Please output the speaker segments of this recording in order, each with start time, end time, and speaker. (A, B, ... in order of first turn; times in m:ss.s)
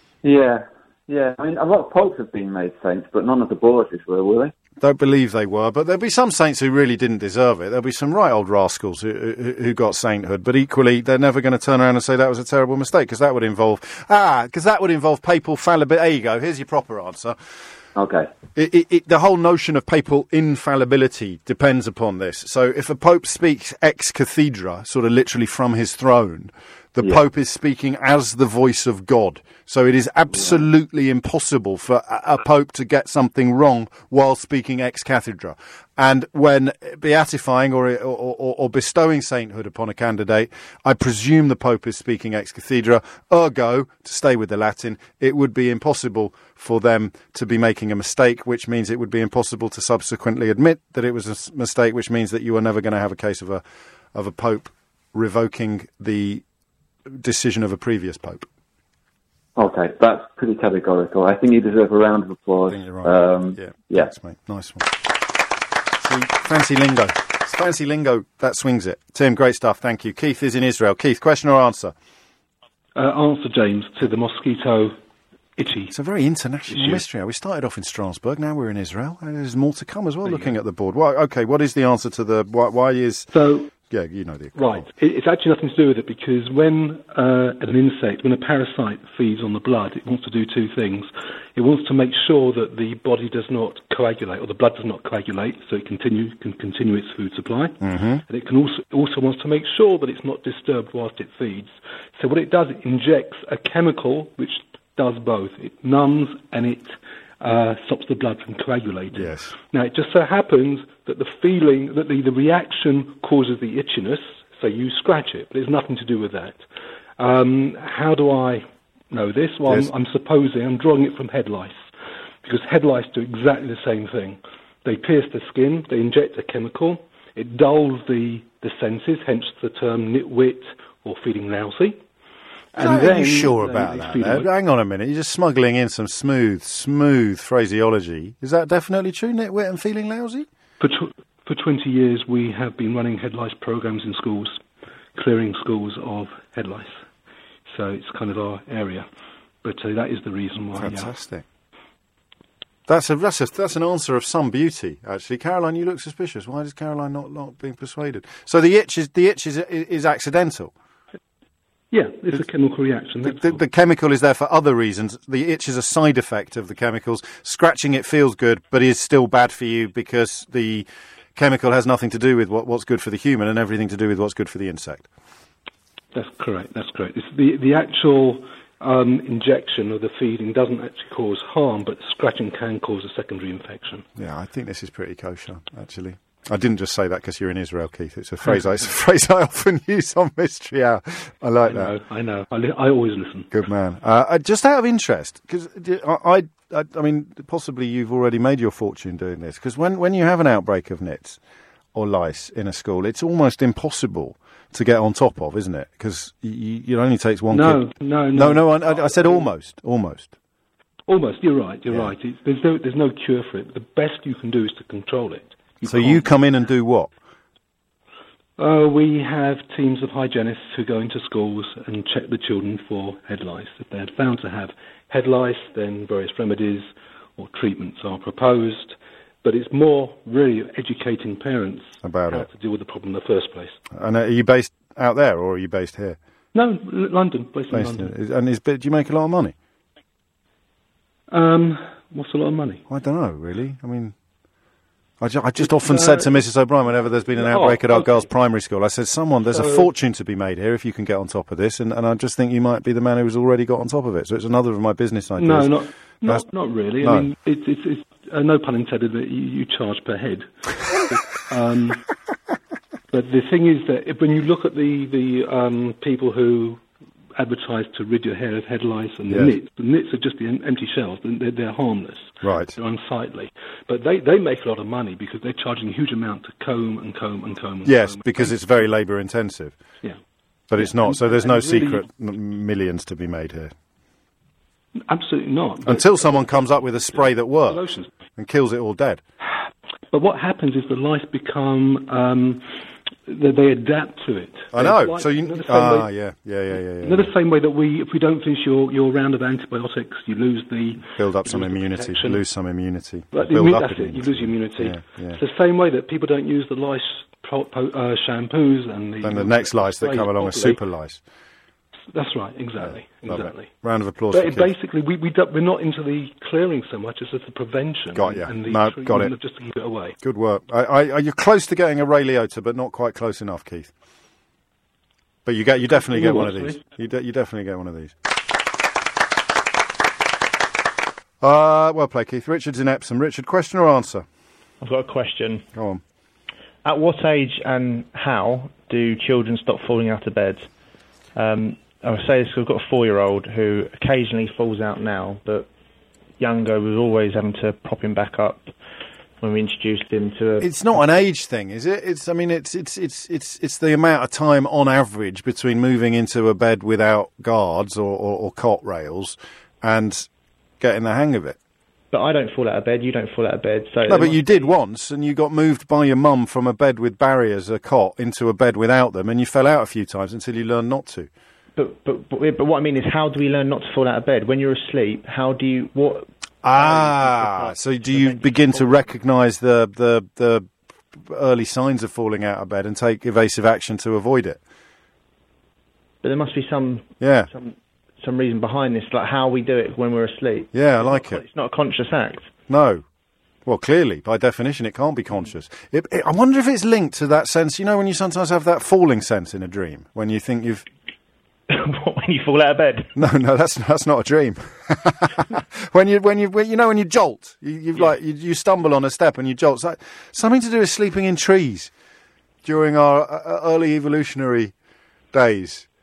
0:00.2-0:04.5 A
0:04.8-0:17.4 B
0:18.0-0:18.3 A
0:18.5-0:53.6 B
0:30.3-0:30.6 A
0:54.1-0:56.4 B
0:57.2-0:58.5 B
0:59.6-1:04.1 A
1:02.7-1:05.0 B
1:06.0-1:11.9 B
1:12.9-1:15.0 C
1:15.6-1:15.9 C
1:15.9-1:24.8 B
1:16.7-1:17.0 C
1:20.2-1:20.5 C
1:23.3-1:23.7 C
1:24.5-1:56.6 C
1:37.8-1:38.2 B
1:49.1-1:49.6 B
1:57.2-2:01.8 C
2:02.4-2:12.0 C
2:12.7-2:14.5 C
2:12.8-2:20.5 B
2:20.8-2:24.6 C
2:25.1-2:27.0 C
2:27.7-2:29.0 C
2:29.6-2:31.1 C
2:30.8-2:31.4 B
2:32.9-2:40.7 B
2:41.9-2:43.6 C
2:43.2-2:55.0 B
2:56.1-3:04.0 C
3:04.2-3:11.9 B
3:11.6-3:13.5 C
3:13.5-3:21.4 B
3:21.9-3:30.3 B
3:27.5-3:29.5 C
3:31.1-3:36.3 C
3:31.9-3:32.1 B
3:35.8-3:37.1 B
3:38.6-3:53.8 C
3:52.0-3:52.5 B
3:53.9-3:56.2 B
3:56.5-3:58.1 C
3:57.7-3:59.5 B
4:01.3-4:02.8 C
4:02.9-4:04.1 B
4:05.2-4:15.7 B
4:05.6-4:06.4 C
4:07.3-4:08.3 C
4:09.5-4:09.9 C
4:15.4-4:22.0 C
4:17.0-4:17.3 B
4:23.1-4:26.8 C
4:27.4-4:38.5 C
4:32.4-4:32.8 B
4:37.8-4:39.8 B
4:40.7-4:43.7 B
4:40.8-4:42.0 C
4:45.1-4:48.1 C
4:45.8-4:47.8 B
4:48.4-4:49.2 B
4:50.1-4:52.7 C
4:53.2-4:56.1 C
4:54.7-4:57.3 B
4:57.0-5:02.4 C
5:01.1-5:05.4 B
5:03.3-5:10.8 C
5:09.2-5:11.2 B
5:12.1-5:20.2 C
5:12.8-5:14.7 B
5:18.1-5:19.3 B
5:20.2-5:23.9 B
5:25.4-5:28.1 B
5:26.0-5:26.8 C
5:31.4-5:34.2 B
5:34.8-5:35.6 D
5:35.7-5:36.0 B
5:36.8-5:40.7 D
5:41.4-5:45.7 D
5:46.4-5:48.7 D
5:49.4-5:51.2 D
5:50.6-6:00.3 B
6:00.8-6:01.6 B
6:02.1-6:04.6 D
6:04.1-6:11.3 B
6:11.8-6:19.1 D
6:16.6-6:20.7 B
6:21.2-6:24.6 B
6:26.2-6:32.5 D
6:27.2-6:27.5 B
6:30.7-6:31.4 B
6:32.7-6:33.0 B
6:33.6-6:40.8 B
6:41.7-6:43.1 D
6:43.2-6:51.9 B
6:52.6-6:54.7 B
6:55.3-6:55.9 B